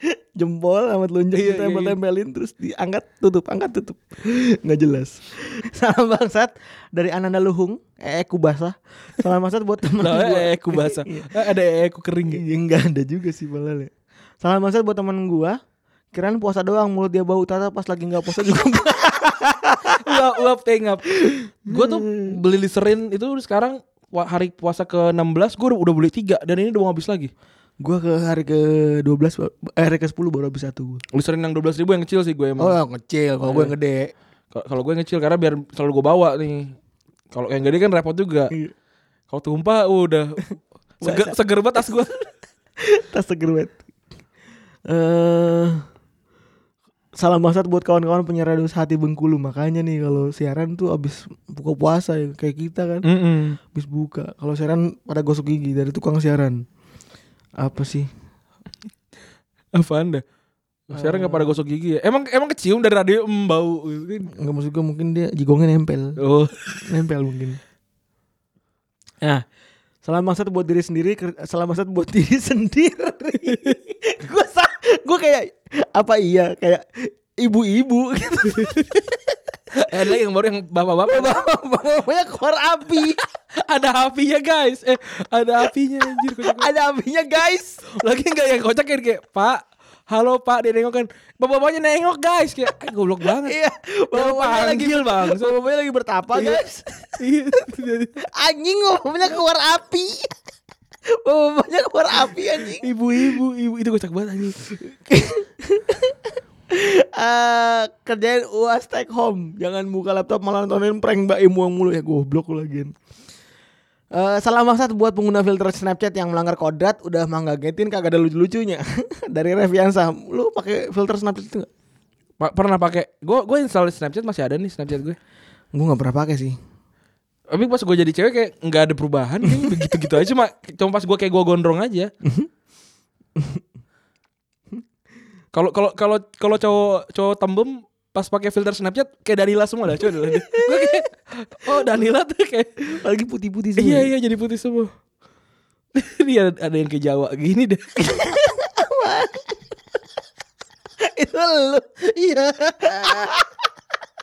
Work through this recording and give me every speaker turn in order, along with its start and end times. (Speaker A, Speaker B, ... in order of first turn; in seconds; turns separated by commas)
Speaker A: 0.3-11.3, Speaker B: 1.3-2.0, Speaker B: 10.0-12.4, Speaker A: 12.3-15.6, Speaker A: 16.1-20.3, Speaker B: 19.9-21.0, Speaker A: 21.2-22.4, Speaker B: 21.7-27.3, Speaker A: 27.8-31.0, Speaker B: 31.1-32.8, Speaker A: 32.6-34.1, Speaker B: 33.4-33.7, Speaker B: 34.5-36.7, Speaker B: 37.3-38.5, Speaker B: 39.3-40.4, Speaker A: 41.0-41.3, Speaker B: 41.0-42.2, Speaker A: 42.8-43.8, Speaker A: 44.9-45.8, Speaker A: 47.2-53.1, Speaker B: 53.0-53.6, Speaker A: 53.7-56.6, Speaker A: 57.6-58.1, Speaker B: 59.7-60.2, Speaker B: 60.9-64.3, Speaker A: 60.9-61.6, Speaker A: 64.3-66.2, Speaker B: 66.2-66.5, Speaker A: 66.8-67.6, Speaker A: 70.0-78.8, Speaker B: 78.6-78.8, Speaker B: 79.8-81.4, Speaker A: 81.1-83.2, Speaker B: 83.7-86.7, Speaker A: 86.4-87.8, Speaker B: 87.9-93.6, Speaker A: 93.4-97.2, Speaker B: 94.1-95.5, Speaker B: 96.3-96.6, Speaker B: 97.2-98.1, Speaker A: 98.3-100.3, Speaker A: 101.1-103.3, Speaker B: 102.6-104.6, Speaker A: 104.8-106.1, Speaker A: 106.7-112.9, Speaker A: 114.1-121.7, Speaker B: 122.4-125.2, Speaker A: 125.7-126.6, Speaker B: 127.5-132.1, Speaker A: 132.2-132.5, Speaker B: 135.5-142.8, Speaker A: 140.0-141.0, Speaker A: 142.9-144.1, Speaker B: 143.8-144.9, Speaker B: 145.9-147.9, Speaker A: 148.1-149.4, Speaker A: 151.0-151.9, Speaker B: 152.0-153.2, Speaker A: 152.9-153.3